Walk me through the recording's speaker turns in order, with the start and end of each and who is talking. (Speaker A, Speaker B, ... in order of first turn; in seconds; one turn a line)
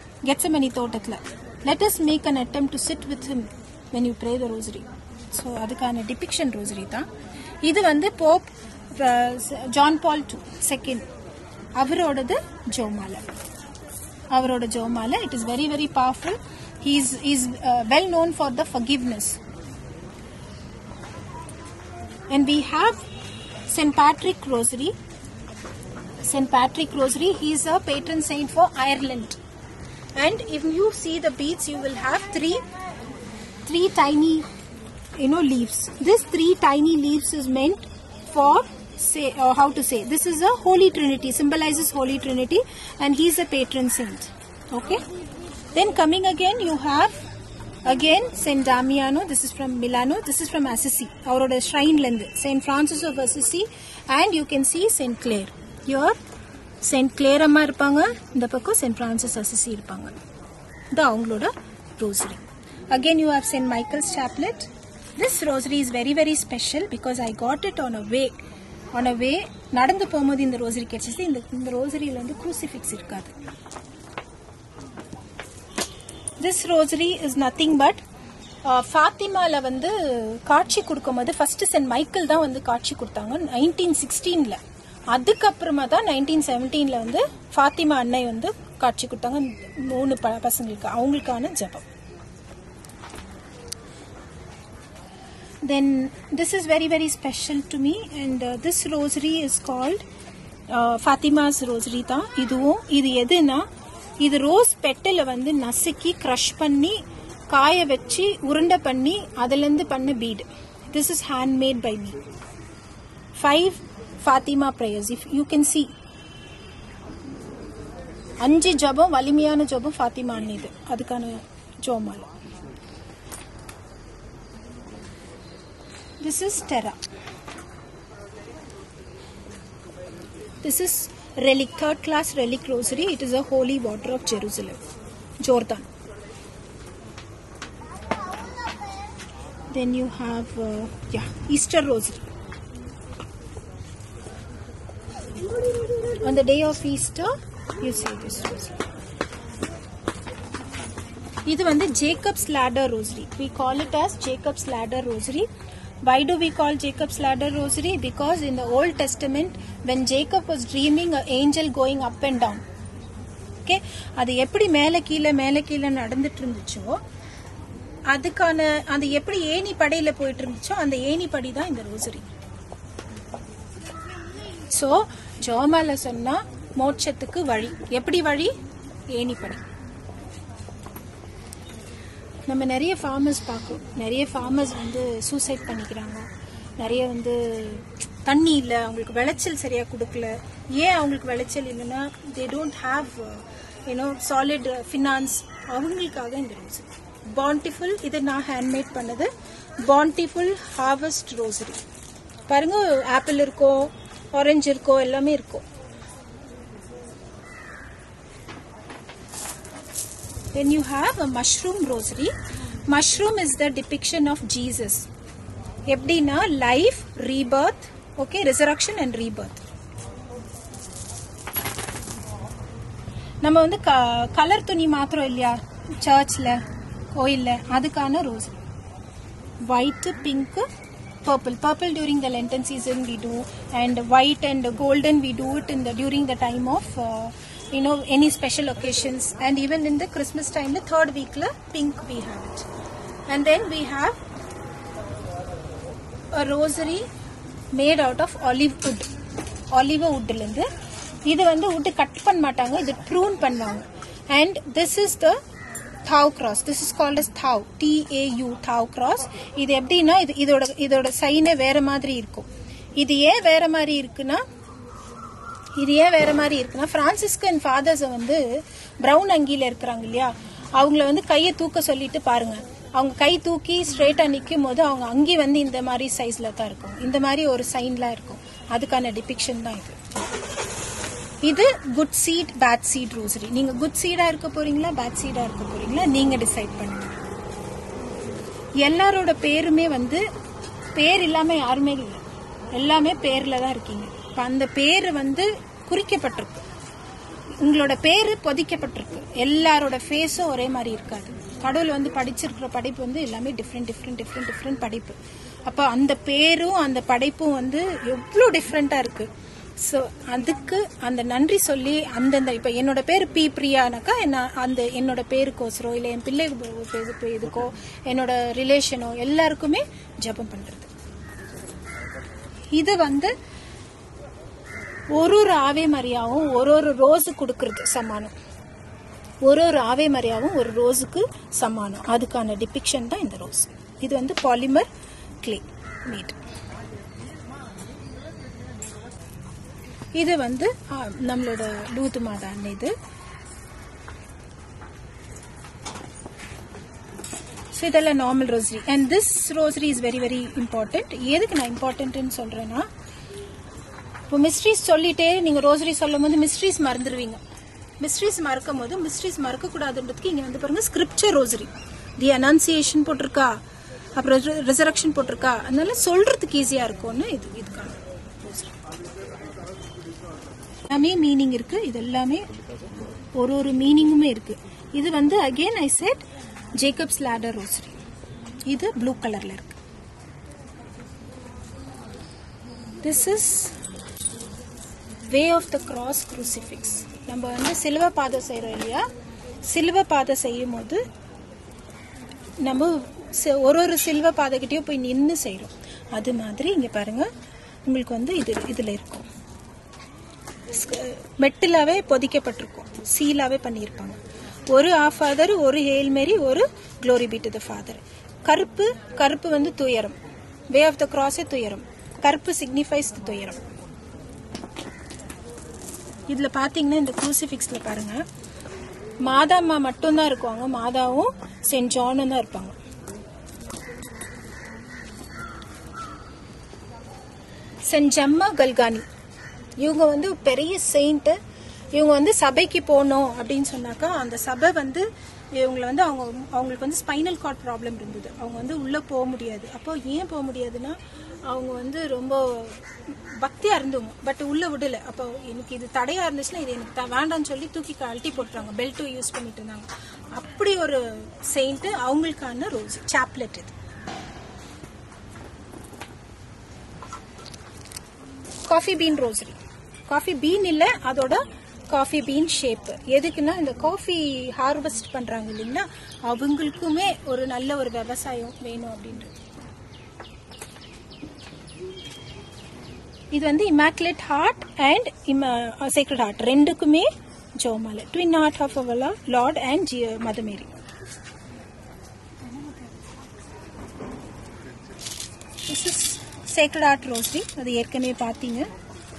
Speaker A: 0.2-7.1
Speaker A: 7.6-11.1
Speaker A: 11.8-13.3
Speaker A: 14.3-19.4
Speaker A: 22.3-23.1
Speaker A: 23.7-24.9
Speaker A: 26.2-29.4
Speaker A: 30.1-32.6
Speaker A: 33.6-34.5
Speaker A: 35.2-45.0
Speaker A: 45.7-47.2
Speaker A: 47.8-56.2
Speaker A: 56.8-60.1
Speaker A: 60.9-68.4
Speaker A: 68.9-73.3
Speaker A: 76.4-78.0
Speaker A: 78.6-84.6
Speaker A: 85.1-91.9
Speaker A: 95.6-100.0
Speaker A: 100.7-103.7
Speaker A: 104.2-112.2
Speaker A: 113.3-115.9
Speaker A: 118.4-122.3
Speaker A: 126.2-127.0
Speaker A: 130.6-134.8
Speaker A: 135.4-135.9
Speaker A: 139.7-142.3
Speaker A: 146.1-148.8
Speaker A: 151.4-155.5
Speaker A: 156.0-162.6
Speaker A: 163.6-167.0
Speaker A: 168.1-172.3
Speaker A: 174.7-178.6
Speaker A: 179.1-179.6
Speaker A: 182.5-201.8
Speaker A: 202.5-205.6
Speaker A: 210.5-212.3
Speaker A: 212.9-215.1
Speaker A: 215.9-219.6
Speaker A: 223.4-228.6
Speaker A: 229.6-230.7
Speaker A: 231.2-242.7
Speaker A: 243.3-244.2
Speaker A: 246.3-247.1
Speaker A: 247.7-249.1
Speaker A: 249.7-250.7
Speaker A: 251.2-255.4
Speaker A: 256.0-264.4
Speaker A: 265.8-280.0
Speaker A: 281.4-287.2
Speaker A: 288.8-290.2
Speaker A: 290.9-292.2
Speaker A: 292.7-296.6
Speaker A: 297.6-320.9
Speaker A: 322.7-323.3
Speaker A: 325.1-328.3
Speaker A: 329.4-334.9
Speaker A: 335.4-336.4
Speaker A: 340.1-342.9
Speaker A: 347.7-352.9
Speaker A: 354.3-357.4
Speaker A: 358.0-363.6
Speaker A: 364.1-368.8
Speaker A: 370.9-372.5
Speaker A: 373.3-376.2
Speaker A: 376.8-378.0
Speaker A: 378.6-379.8
Speaker A: 383.0-383.8
Speaker A: 385.2-389.1
Speaker A: 389.6-391.0
Speaker A: 392.6-397.3
Speaker A: 397.8-399.3
Speaker A: 400.7-410.1
Speaker A: 410.7-413.7
Speaker A: 416.3-418.2
Speaker A: 419.2-422.8
Speaker A: 427.8-429.1
Speaker A: 429.8-431.4
Speaker A: 431.9-442.8
Speaker A: 443.4-453.7
Speaker A: 458.6-469.3
Speaker A: 473.3-480.7
Speaker A: 485.6-488.7